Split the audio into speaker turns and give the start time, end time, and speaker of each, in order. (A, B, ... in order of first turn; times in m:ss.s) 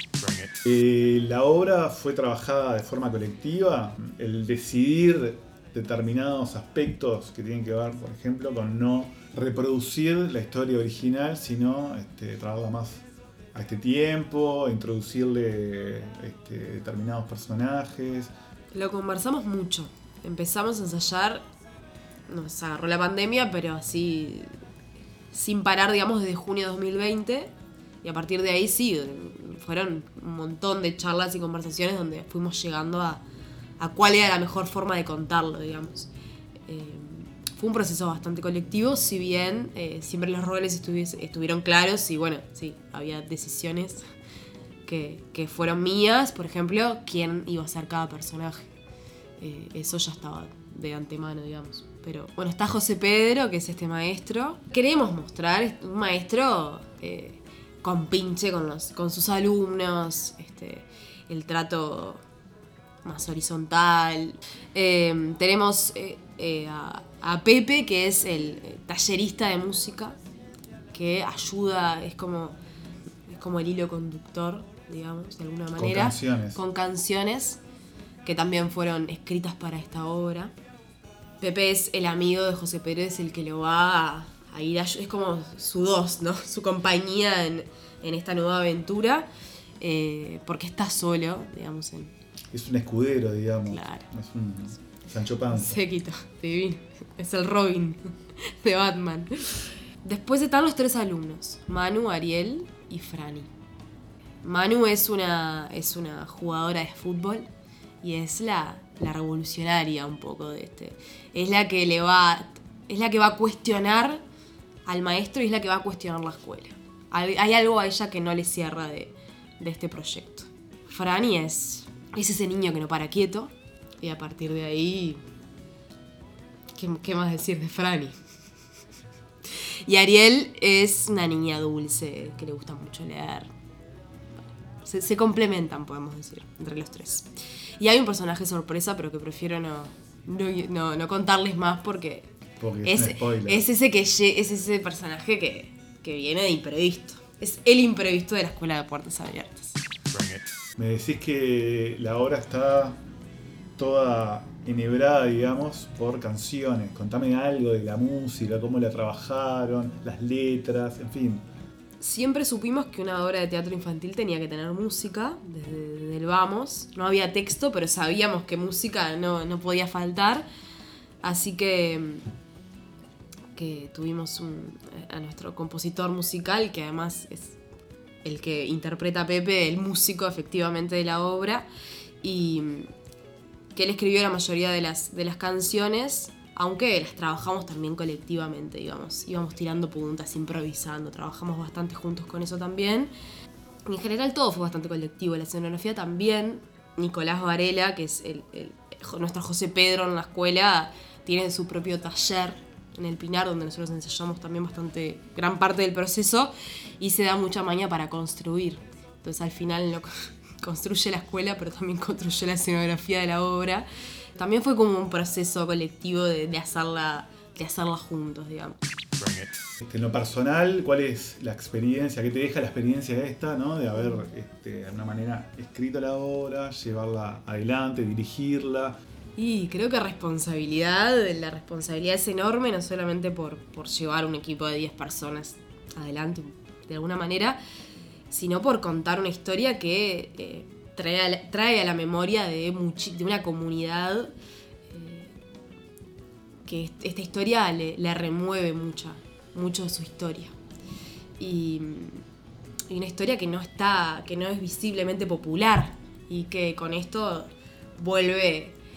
0:00.6-0:18.3 A
0:18.7-0:21.5 B
0:22.3-0:24.5 B
0:25.3-0:33.2 B
0:33.8-0:36.1 B
0:36.7-0:44.0 B
0:44.8-0:48.7 B
0:49.4-1:02.2 B
1:03.0-1:10.2 B
1:10.9-1:12.6 B
1:13.2-1:17.6 B
1:15.8-1:16.6 A
1:18.2-1:20.5 B
1:21.4-1:29.3 B
1:29.8-1:32.1 B
1:32.5-1:35.8 A
1:33.7-1:34.1 B
1:35.5-1:43.5 B
1:44.4-1:47.5 B
1:48.0-1:54.2 B
1:54.8-2:05.2 B
2:06.7-2:08.2 B
2:09.8-2:13.5 B
2:14.8-2:22.3 B
2:22.6-2:23.7 A
2:22.8-2:29.8 B
2:30.2-2:33.0 A
2:33.8-2:41.4 A
2:42.0-2:50.4 B
2:51.2-2:52.3 B
2:53.6-2:57.6 B
2:58.2-3:01.7 B
3:02.2-3:02.9 B
3:03.7-3:13.1 B
3:13.8-3:38.8 B
3:39.2-3:49.0 A
3:49.4-3:57.6 B
3:58.3-4:04.3 B
4:04.9-4:05.3 B
4:06.6-4:10.6 B
4:11.4-4:12.2 B
4:12.9-4:18.8 B